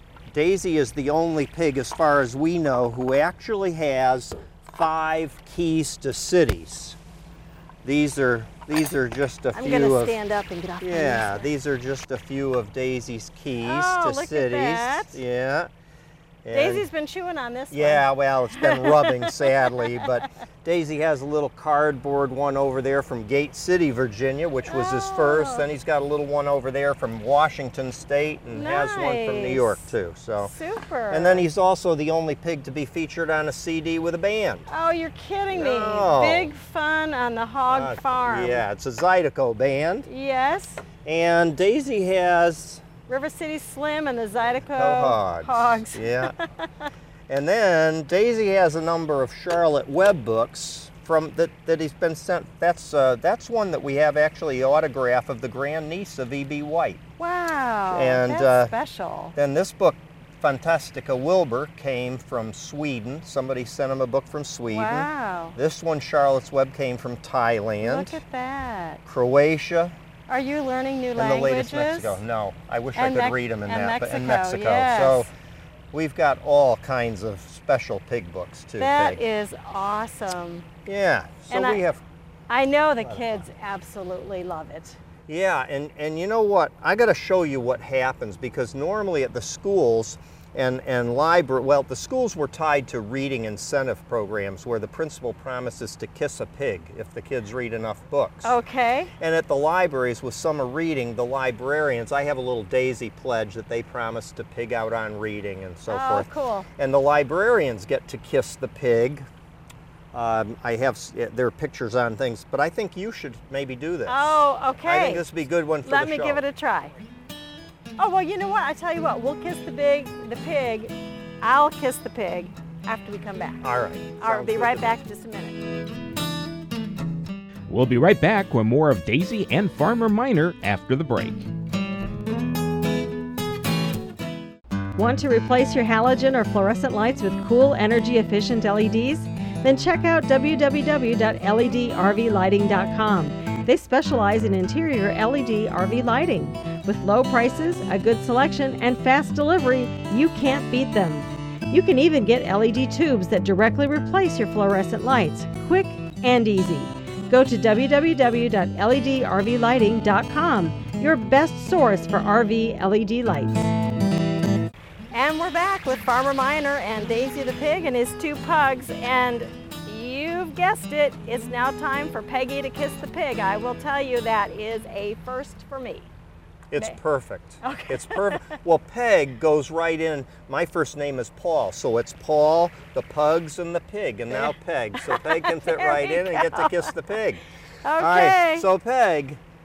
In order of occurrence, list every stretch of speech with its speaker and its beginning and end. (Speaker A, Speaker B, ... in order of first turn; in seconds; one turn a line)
Speaker A: 0.3-7.0
Speaker A: 7.8-10.2
Speaker B: 9.5-11.5
Speaker A: 10.8-15.7
Speaker B: 13.6-15.2
Speaker A: 16.4-16.9
Speaker B: 16.5-20.2
Speaker A: 17.7-30.5
Speaker B: 24.6-25.7
Speaker B: 28.5-29.9
Speaker B: 30.4-31.5
Speaker A: 31.1-34.7
Speaker B: 34.7-38.6
Speaker A: 35.5-36.5
Speaker A: 37.7-40.1
Speaker B: 40.1-40.9
Speaker A: 41.0-42.8
Speaker B: 43.1-46.7
Speaker A: 44.7-46.3
Speaker A: 47.3-57.0
Speaker B: 57.2-59.4
Speaker A: 57.9-58.7
Speaker A: 59.4-68.2
Speaker B: 64.7-65.6
Speaker B: 67.8-69.0
Speaker A: 69.0-70.0
Speaker B: 70.3-72.2
Speaker A: 71.2-75.3
Speaker B: 73.0-75.3
Speaker A: 75.9-79.2
Speaker B: 78.8-80.7
Speaker A: 80.9-82.0
Speaker B: 81.5-81.8
Speaker B: 82.5-85.0
Speaker A: 83.0-83.5
Speaker A: 85.3-98.6
Speaker B: 98.4-99.1
Speaker A: 99.2-109.3
Speaker B: 105.9-106.7
Speaker A: 110.1-116.4
Speaker B: 114.1-115.3
Speaker B: 115.8-117.0
Speaker B: 118.0-123.7
Speaker A: 123.6-125.0
Speaker B: 124.2-125.6
Speaker C: 127.7-131.5
Speaker B: 135.0-163.7
Speaker B: 165.1-176.1
Speaker A: 176.7-187.4
Speaker B: 177.6-178.5
Speaker B: 184.3-186.9
Speaker B: 187.8-188.7
Speaker A: 188.0-189.4